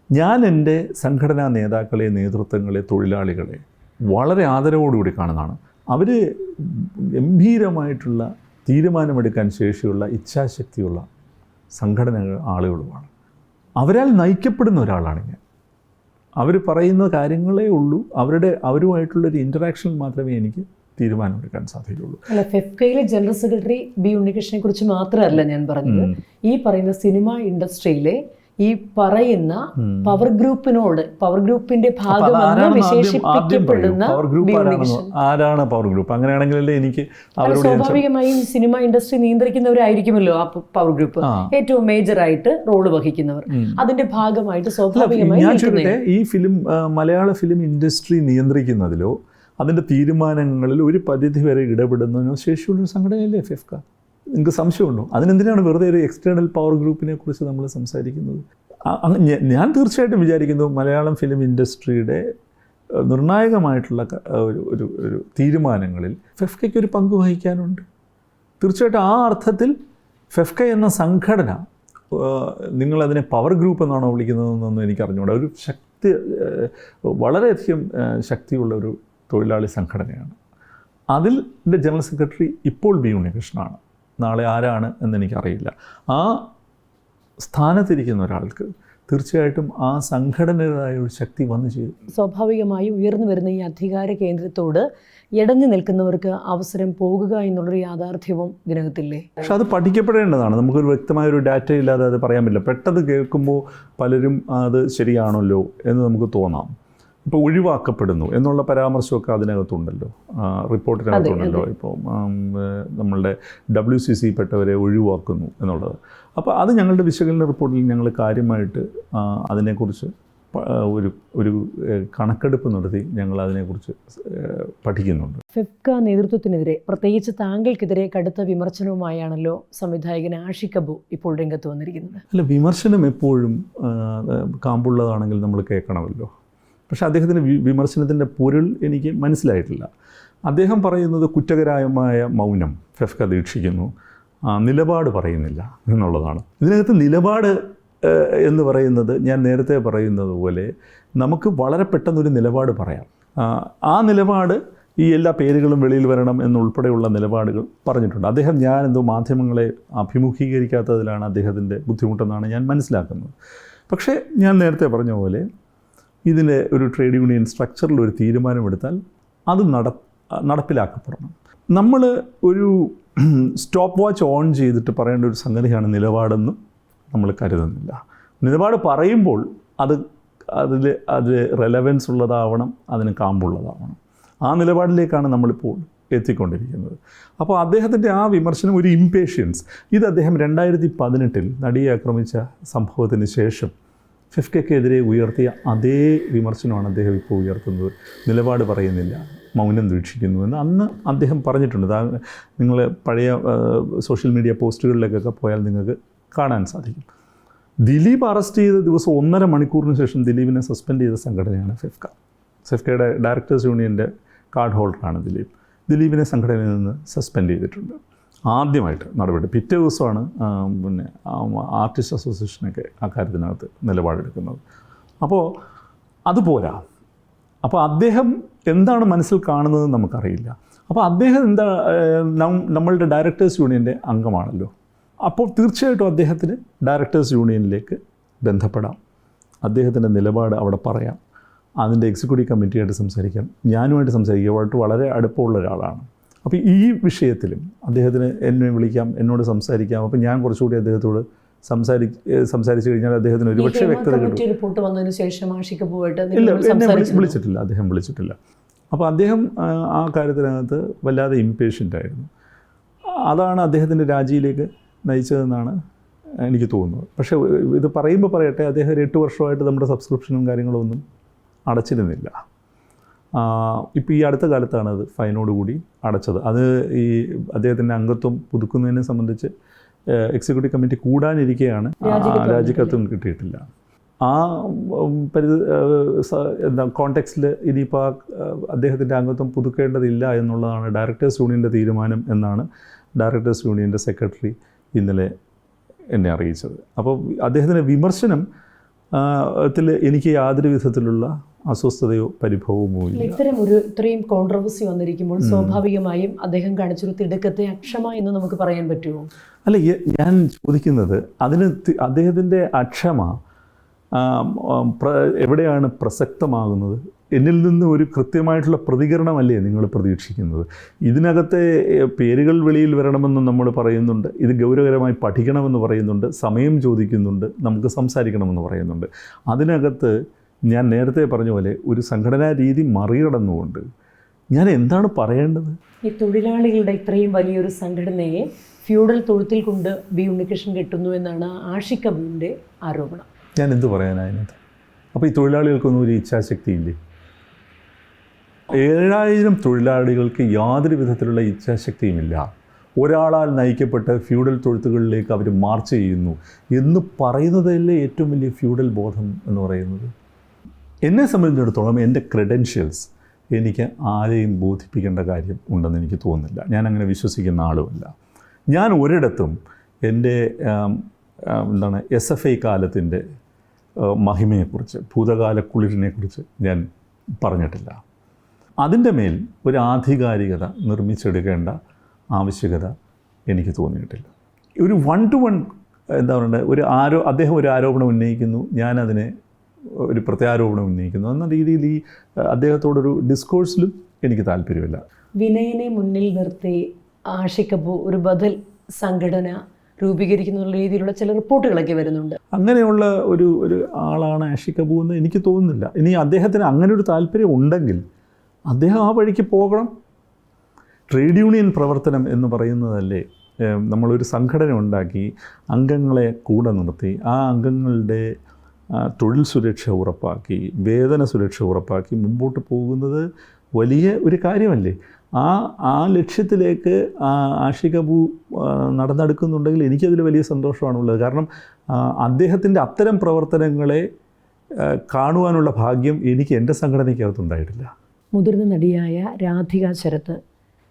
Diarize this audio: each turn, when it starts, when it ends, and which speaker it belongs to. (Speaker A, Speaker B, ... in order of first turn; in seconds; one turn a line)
Speaker A: 0.1-11.1
Speaker A: 11.7-13.1
Speaker A: 13.8-15.4
Speaker A: 16.4-22.3
Speaker B: 22.3-35.1
Speaker A: 25.9-26.1
Speaker A: 29.8-30.2
Speaker A: 32.1-38.0
Speaker B: 37.4-46.0
Speaker A: 41.2-41.5
Speaker A: 43.5-43.8
Speaker A: 44.9-62.2
Speaker A: 62.9-67.8
Speaker A: 68.6-69.8
Speaker A: 70.3-80.4
Speaker A: 81.1-86.5
Speaker A: 87.4-92.1
Speaker B: 92.1-99.3
Speaker A: 99.4-106.7
Speaker A: 107.2-125.4
Speaker B: 111.1-111.7
Speaker B: 125.5-132.2
Speaker A: 132.3-136.3
Speaker A: 136.9-139.9
Speaker A: 140.5-143.9
Speaker A: 144.5-163.3
Speaker A: 163.9-165.5
Speaker A: 166.3-176.6
Speaker A: 177.1-193.7
Speaker A: 194.3-207.1
Speaker A: 207.8-224.6
Speaker A: 226.3-226.8
Speaker A: 227.6-234.7
Speaker A: 235.2-239.0
Speaker A: 239.6-241.2
Speaker A: 241.8-254.4
Speaker B: 253.6-257.4
Speaker A: 256.3-258.4
Speaker A: 258.9-262.3
Speaker A: 263.3-265.8
Speaker A: 266.4-271.0
Speaker A: 271.7-272.3
Speaker A: 273.4-279.5
Speaker A: 280.1-283.6
Speaker B: 282.0-283.0
Speaker A: 284.2-295.3
Speaker A: 296.1-298.4
Speaker A: 299.1-303.4
Speaker B: 303.1-309.3
Speaker A: 305.4-305.8
Speaker A: 309.6-313.4
Speaker A: 314.1-330.1
Speaker A: 330.7-333.8
Speaker A: 334.5-335.8
Speaker B: 336.1-343.3
Speaker A: 343.6-344.6
Speaker A: 345.1-347.0
Speaker A: 348.7-360.1
Speaker A: 361.1-368.1
Speaker A: 368.7-373.2
Speaker A: 374.0-376.9
Speaker A: 377.4-378.0
Speaker A: 378.8-381.8
Speaker A: 382.3-382.9
Speaker A: 383.5-389.3
Speaker A: 389.9-395.0
Speaker B: 395.4-402.4
Speaker A: 402.5-408.0
Speaker A: 408.7-409.9
Speaker A: 411.1-418.3
Speaker A: 418.9-423.3
Speaker A: 423.8-434.1
Speaker A: 434.8-437.9
Speaker B: 438.3-440.4